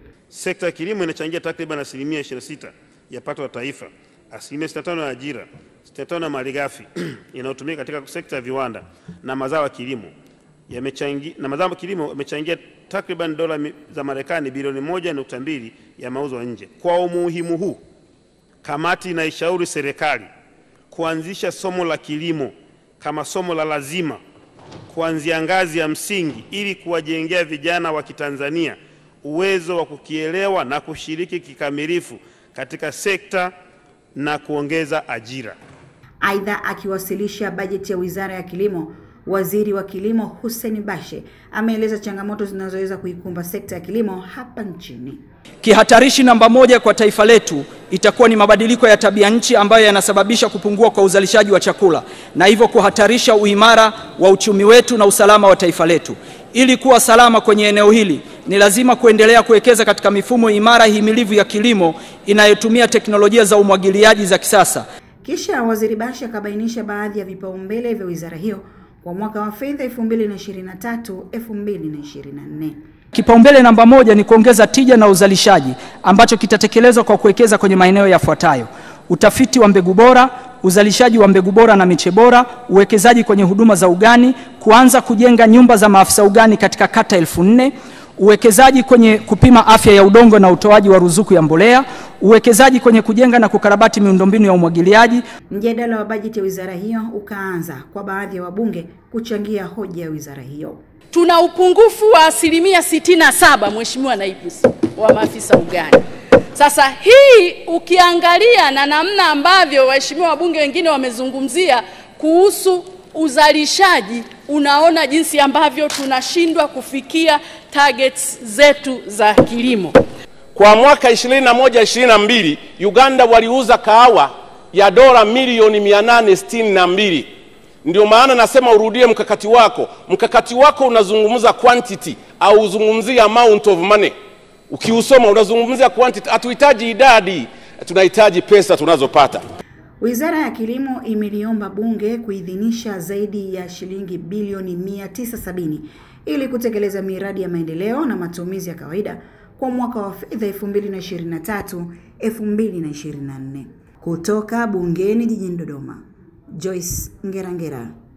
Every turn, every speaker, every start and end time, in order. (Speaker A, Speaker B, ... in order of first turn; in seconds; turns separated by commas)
Speaker A: 0.3-10.1, Speaker A: 10.7-17.8, Speaker A: 18.6-20.3, Speaker A: 20.9-24.2, Speaker A: 24.9-33.5, Speaker A: 34.1-35.5, Speaker B: 36.2-45.2, Speaker C: 45.6-64.8, Speaker B: 65.2-72.8, Speaker C: 73.1-95.2, Speaker B: 95.5-100.8, Speaker D: 101.1-106.0, Speaker D: 106.5-120.0, Speaker E: 120.5-127.3, Speaker E: 127.8-134.1, Speaker E: 134.7-139.4, Speaker B: 140.0-157.9